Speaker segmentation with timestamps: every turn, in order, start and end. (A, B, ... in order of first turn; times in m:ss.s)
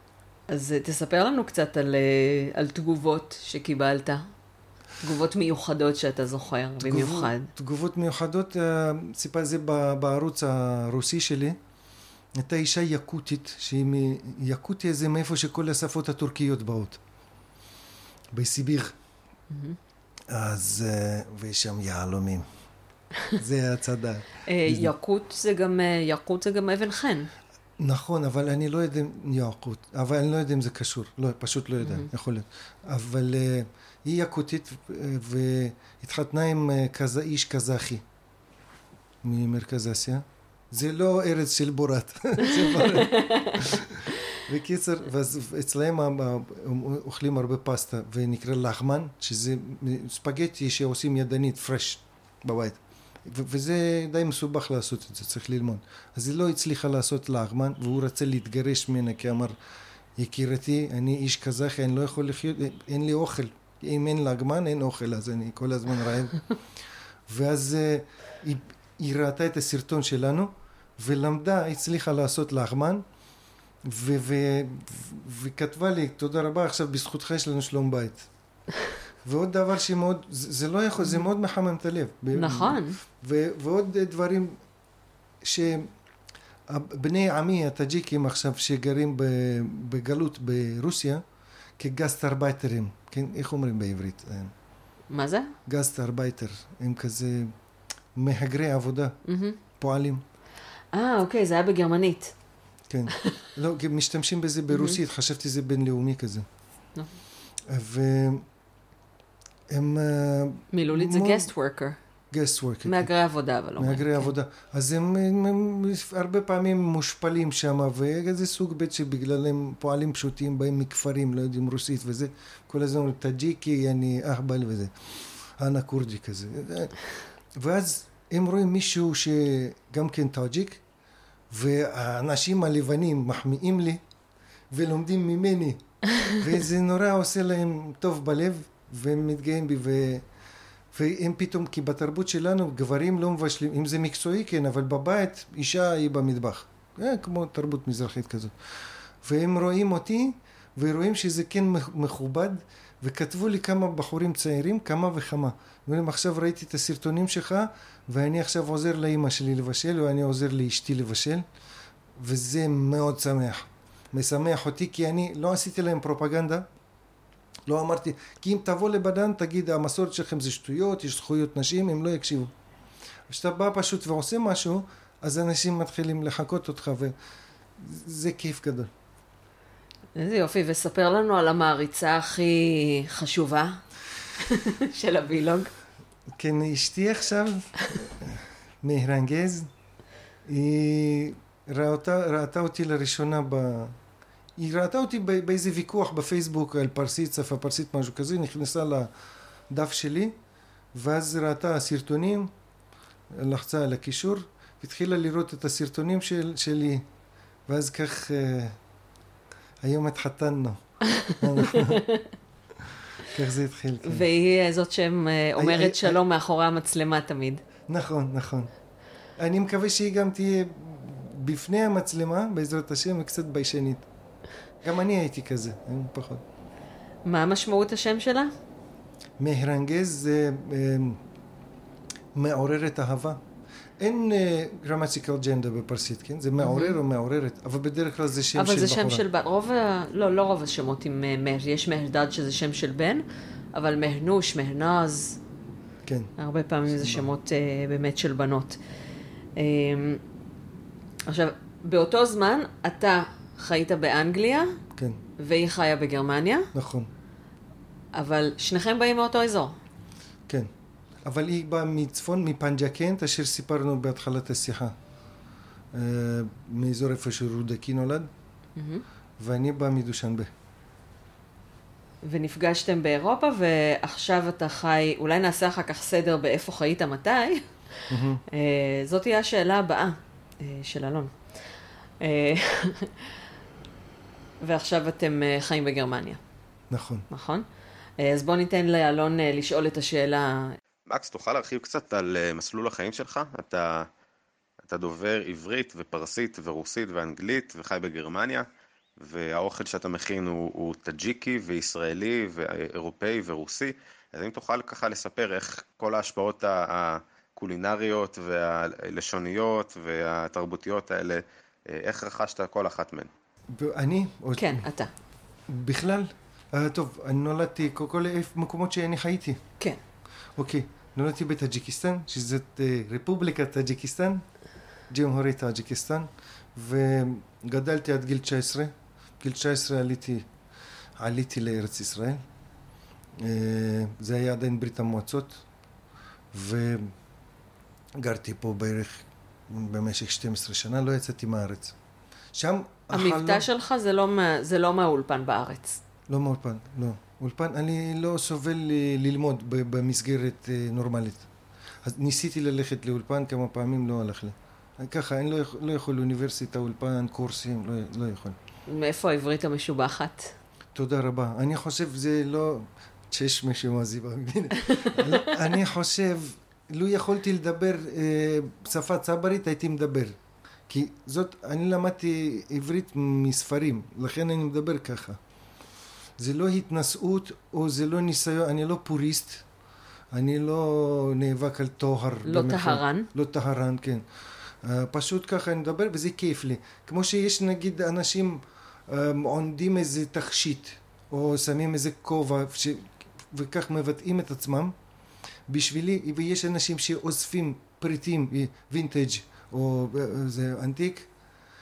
0:00.5-0:04.2 A
0:05.0-0:07.5 A
0:06.8-0:11.6 B
0:12.4-0:17.0 B
0:18.3-0:19.0 B
0:19.5-0:19.8 A
0:20.3-0:22.4 B
0:23.4-0:24.9 B
0:24.5-0:27.3 A
0:27.8-0:38.0 B
0:31.8-0:32.1 A
0:39.2-0:59.5 B
0:42.4-0:43.8 A
1:00.2-1:06.4 B
1:07.3-1:13.0 B
1:13.9-1:18.3 B
1:19.2-1:24.5 B
1:22.4-1:23.0 A
1:25.5-1:25.9 B
1:26.7-1:31.2 B
1:31.8-1:34.5 B
1:35.1-1:35.5 A
1:35.7-1:37.5 B
1:38.2-1:39.2 B
1:39.3-1:39.6 A
1:39.8-1:40.2 B
1:40.9-1:42.3 A
1:42.9-1:46.4 B
1:44.7-1:45.0 A
1:47.7-1:48.4 B
1:49.7-1:51.5 B
1:50.7-1:52.0 A
1:52.3-1:53.1 B
1:52.8-1:54.3 A
1:53.8-2:04.9 B
2:05.6-2:07.0 B
2:07.6-2:10.8 B
2:11.5-2:14.0 B
2:14.7-2:20.2 B
2:20.9-2:28.5 B
2:29.2-2:41.4 B
2:42.2-2:46.7 B
2:47.7-2:52.5 B
2:53.3-2:57.1 B
2:57.8-2:58.9 B
3:00.2-3:03.8 A
3:04.4-3:05.7 A
3:06.4-3:09.7 B
3:10.5-3:14.0 B
3:14.6-3:19.1 B
3:19.7-3:20.3 B
3:21.0-3:22.5 B
3:23.4-3:27.0 B
3:27.7-3:28.8 B
3:29.8-3:30.8 B
3:31.1-3:32.3 A
3:31.4-3:32.0 B
3:33.2-3:34.3 B
3:34.0-3:37.6 A
3:35.6-3:36.2 B
3:37.9-3:38.7 B
3:39.4-3:44.1 B
3:44.8-3:46.4 B
3:47.3-3:48.5 A
3:49.4-3:51.2 B
3:52.4-3:53.4 B
3:54.0-3:59.2 B
3:56.6-3:57.0 A
3:58.5-4:05.4 A
4:06.1-4:06.3 B
4:06.4-4:08.8 A
4:06.9-4:07.2 B
4:09.6-4:10.2 A
4:11.3-4:14.8 A
4:15.4-4:16.7 A
4:16.8-4:17.1 B
4:18.2-4:19.8 A
4:21.3-4:24.9 B
4:26.0-4:28.3 B
4:28.8-4:29.0 A
4:29.4-4:30.5 B
4:32.2-4:41.4 A
4:38.1-4:38.4 B
4:42.2-4:43.3 A
4:44.6-4:46.4 A
4:46.9-4:47.2 B
4:47.3-4:47.6 A
4:48.2-4:50.8 A
4:51.1-4:54.1 C
4:54.8-4:58.7 C
4:59.2-5:13.3 C
5:13.7-5:14.9 B
5:14.6-5:15.1 A
5:15.7-5:19.6 B
5:20.6-5:24.4 B
5:25.1-5:30.4 B
5:31.2-5:32.4 B
5:33.4-5:35.6 B
5:36.5-5:37.1 B
5:38.2-5:42.0 B
5:42.6-5:43.6 B
5:43.1-5:46.0 A
5:46.3-5:51.4 B
5:52.0-5:58.6 B
5:58.9-6:00.6 A
6:01.0-6:10.4 B
6:04.9-6:05.4 A
6:10.9-6:15.4 B
6:16.4-6:19.6 B
6:20.3-6:24.2 B
6:22.4-6:23.3 A
6:24.8-6:34.9 B
6:35.7-6:41.3 B